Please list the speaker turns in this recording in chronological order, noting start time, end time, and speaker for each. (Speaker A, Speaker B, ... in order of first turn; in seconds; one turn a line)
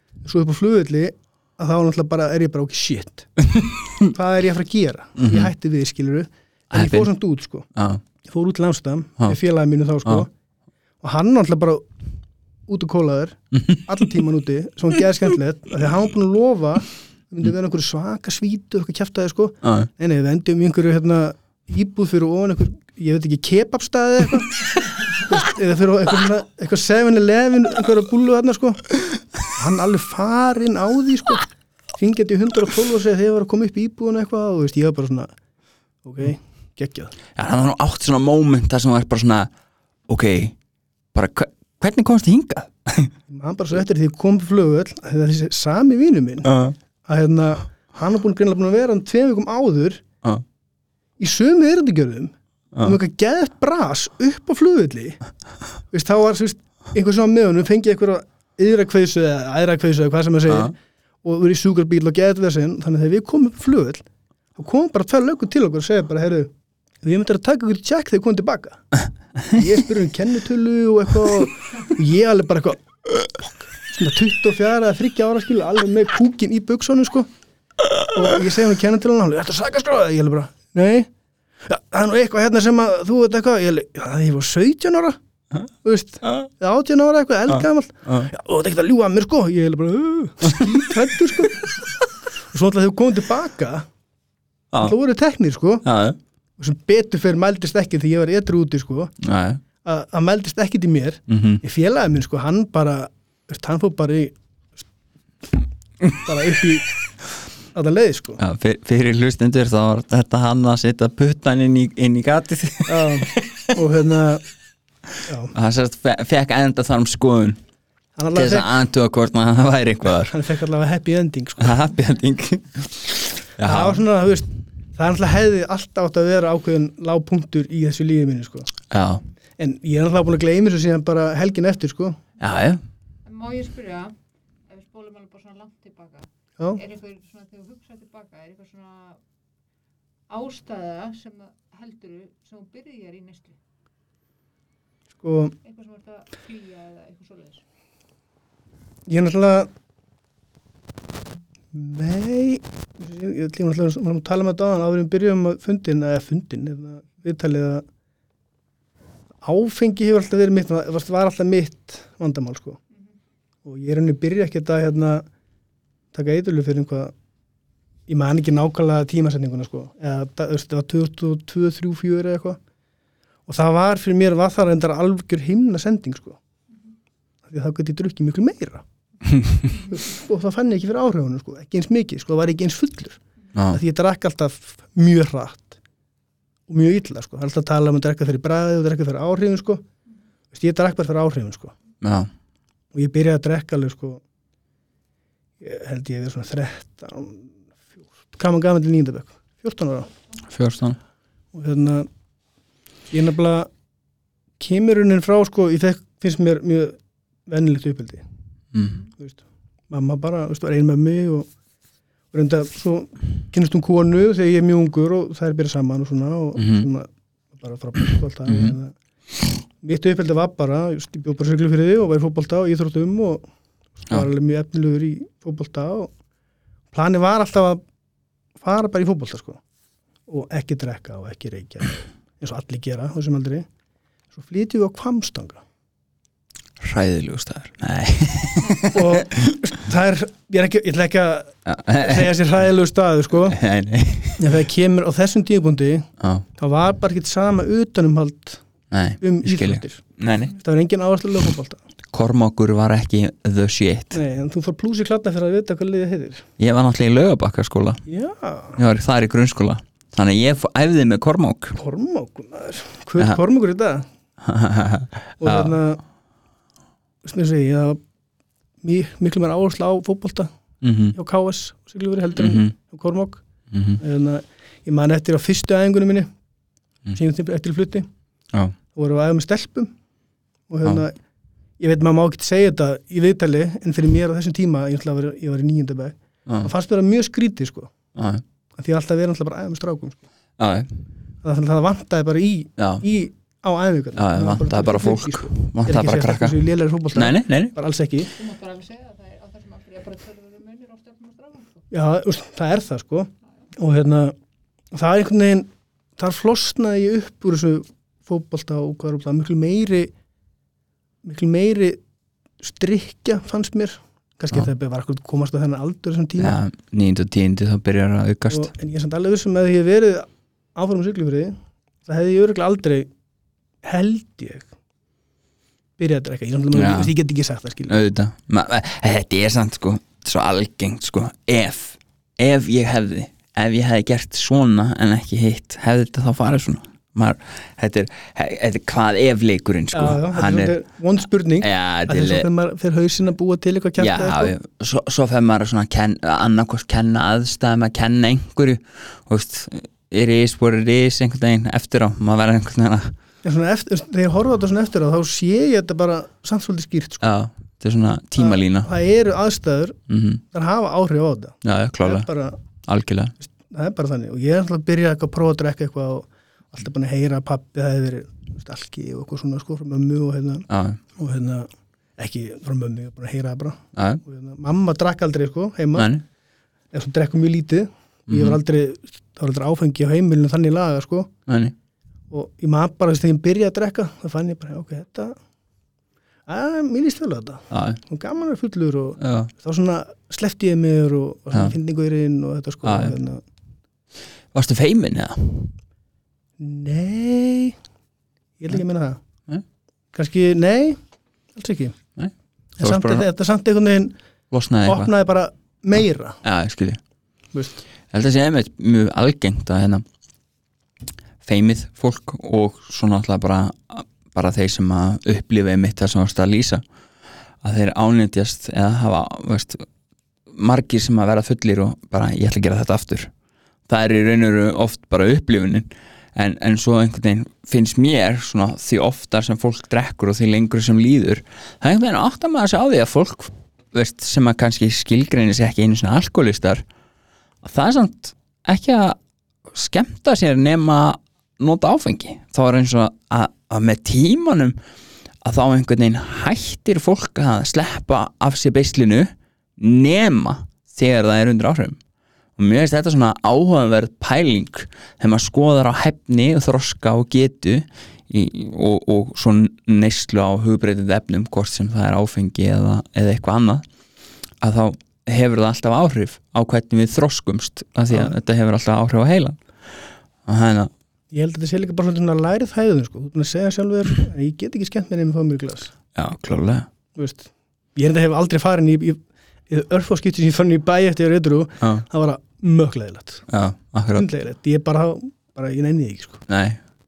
Speaker A: 0.2-3.3
Speaker B: 3.4-4.0
Speaker A: 4.0-7.7
Speaker B: 5.2-5.5
Speaker B: 6.7-7.1
Speaker B: 7.7-8.0
Speaker A: 8.2-10.3
Speaker A: 11.0-11.8
Speaker A: 12.7-24.6
Speaker B: 13.5-13.8
Speaker B: 19.6-19.9
Speaker A: 25.2-28.9
Speaker A: 29.4-31.5
Speaker A: 32.0-35.3
Speaker A: 36.0-37.1
Speaker B: 37.3-39.5
Speaker B: 40.1-40.5
Speaker B: 41.1-43.1
Speaker A: 43.3-50.0
Speaker B: 46.4-46.8
Speaker A: 51.2-55.2
Speaker A: 55.9-64.0
Speaker B: 60.5-60.7
Speaker A: 64.5-66.5
Speaker A: 67.0-68.8
Speaker A: 69.4-72.8
Speaker A: 73.8-77.3
Speaker A: 78.0-81.1
Speaker A: 81.6-85.2
Speaker A: 85.8-91.8
Speaker B: 87.5-88.3
Speaker B: 90.5-90.8
Speaker A: 92.5-93.9
Speaker A: 94.8-95.8
Speaker B: 95.8-96.2
Speaker A: 96.6-99.1
Speaker B: 99.2-99.6
Speaker A: 99.8-104.3
Speaker B: 101.3-101.6
Speaker A: 106.1-106.9
Speaker A: 107.7-108.4
Speaker B: 108.4-113.7
Speaker A: 112.9-114.4
Speaker A: 115.2-115.5
Speaker B: 115.5-117.6
Speaker A: 118.2-118.7
Speaker B: 118.3-120.3
Speaker A: 120.3-121.8
Speaker B: 121.6-124.0
Speaker A: 123.6-128.7
Speaker B: 128.9-129.2
Speaker A: 129.6-132.2
Speaker B: 132.4-132.8
Speaker C: 133.2-134.1
Speaker C: 134.7-139.2
Speaker C: 140.3-143.6
Speaker A: 145.2-145.5
Speaker C: 145.6-147.6
Speaker A: 149.1-149.7
Speaker A: 151.7-157.8
Speaker A: 159.4-162.8
Speaker A: 163.6-165.2
Speaker A: 166.1-167.1
Speaker A: 168.1-172.6
Speaker A: 173.5-176.4
Speaker A: 177.4-178.8
Speaker A: 179.7-183.2
Speaker B: 183.5-183.8
Speaker A: 183.7-185.8
Speaker A: 186.7-189.8
Speaker A: 190.5-191.7
Speaker B: 192.0-192.3
Speaker A: 192.9-194.2
Speaker A: 195.6-197.5
Speaker A: 198.3-200.1
Speaker B: 200.5-201.0
Speaker A: 201.5-202.1
Speaker A: 203.1-203.7
Speaker A: 204.6-208.2
Speaker B: 208.7-209.0
Speaker A: 209.2-211.5
Speaker A: 212.3-218.9
Speaker B: 216.6-216.8
Speaker B: 218.5-218.7
Speaker A: 219.8-223.4
Speaker A: 224.0-226.1
Speaker A: 226.9-227.8
Speaker A: 228.6-229.6
Speaker A: 230.3-233.7
Speaker A: 234.3-235.6
Speaker B: 236.8-239.5
Speaker A: 238.9-243.6
Speaker B: 241.7-242.4
Speaker B: 243.5-244.5
Speaker A: 244.4-248.6
Speaker B: 246.2-246.4
Speaker B: 248.9-250.6
Speaker A: 249.2-250.0
Speaker A: 250.6-251.8
Speaker B: 252.1-254.2
Speaker A: 254.1-256.5
Speaker B: 256.6-258.0
Speaker A: 258.1-258.8
Speaker B: 258.8-261.8
Speaker A: 261.8-264.1
Speaker B: 264.4-265.8
Speaker A: 265.4-266.0
Speaker A: 267.2-268.0
Speaker A: 268.8-270.5
Speaker B: 270.8-271.1
Speaker A: 271.1-273.4
Speaker B: 272.4-272.7
Speaker B: 273.7-274.0
Speaker A: 274.0-276.3
Speaker A: 277.1-278.1
Speaker A: 278.9-279.9
Speaker A: 280.7-281.1
Speaker A: 281.8-287.9
Speaker B: 288.1-288.4
Speaker A: 288.8-290.2
Speaker B: 290.6-290.9
Speaker A: 291.4-298.3
Speaker B: 292.8-293.0
Speaker B: 294.1-296.6
Speaker B: 297.1-297.7
Speaker C: 298.3-301.8
Speaker A: 301.9-304.3
Speaker A: 304.9-310.1
Speaker A: 311.2-312.0
Speaker A: 312.6-316.6
Speaker B: 316.4-318.7
Speaker A: 318.5-323.1
Speaker A: 323.8-324.7
Speaker A: 326.0-328.0
Speaker B: 326.7-327.1
Speaker B: 327.9-340.7
Speaker A: 339.9-344.5
Speaker B: 341.6-342.5
Speaker B: 344.0-353.1
Speaker A: 353.4-357.3
Speaker B: 357.2-358.9
Speaker A: 358.4-360.0
Speaker B: 360.1-360.4
Speaker A: 360.5-362.6
Speaker B: 361.6-362.3
Speaker B: 362.9-363.3
Speaker A: 363.4-376.1
Speaker B: 370.7-371.0
Speaker B: 373.9-374.2
Speaker B: 375.9-376.2
Speaker A: 376.9-381.3
Speaker B: 378.3-378.6
Speaker B: 381.5-381.7
Speaker A: 382.3-385.4
Speaker A: 386.5-393.4
Speaker B: 387.7-388.0
Speaker B: 389.2-389.5
Speaker B: 392.8-393.1
Speaker B: 394.5-395.7
Speaker A: 396.6-397.8
Speaker A: 398.6-399.2
Speaker A: 400.1-401.0
Speaker A: 401.5-401.9
Speaker B: 402.1-403.2
Speaker A: 402.8-404.1
Speaker B: 404.5-405.1
Speaker A: 404.8-406.4
Speaker B: 406.4-407.0
Speaker A: 407.5-407.8
Speaker B: 408.1-410.0
Speaker B: 411.4-416.8
Speaker B: 417.6-419.9
Speaker B: 420.5-423.3
Speaker B: 423.9-436.8
Speaker B: 437.6-444.8
Speaker B: 445.4-452.0
Speaker B: 452.6-463.9
Speaker B: 464.6-469.6
Speaker B: 470.4-470.9
Speaker A: 471.3-475.9
Speaker B: 476.1-476.9
Speaker A: 477.1-483.5
Speaker B: 483.5-484.3
Speaker A: 484.1-486.4
Speaker B: 486.5-486.8